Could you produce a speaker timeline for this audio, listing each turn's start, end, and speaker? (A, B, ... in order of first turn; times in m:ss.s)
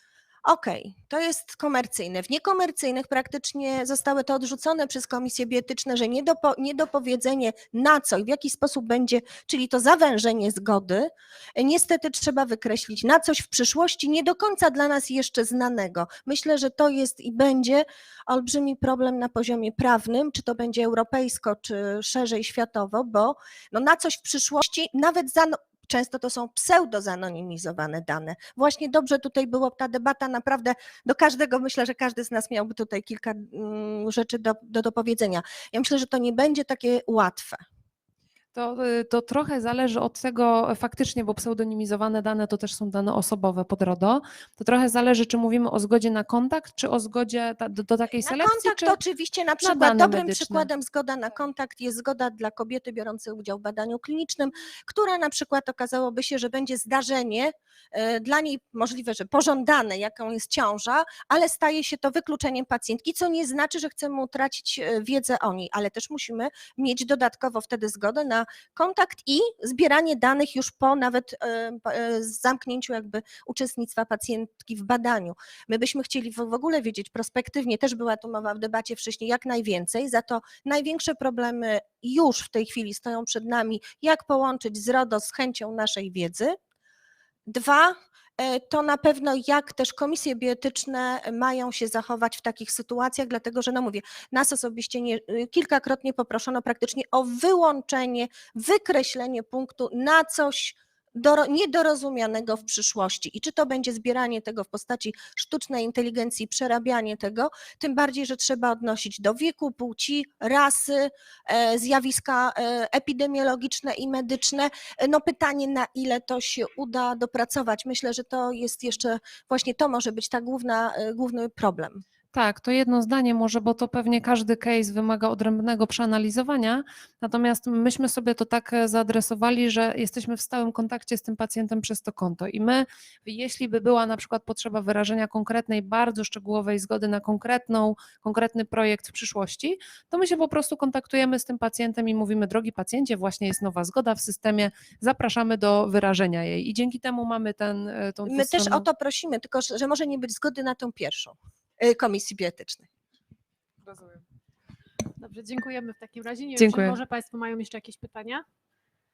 0:00.4-0:37.6 A
0:38.5-0:49.0 B
0:48.2-1:26.5 A
0:49.6-0:50.7 B
1:27.5-2:02.0 A
2:02.3-2:28.9 B
2:28.3-2:32.9 A
2:35.2-2:38.4 C
2:36.6-2:37.0 B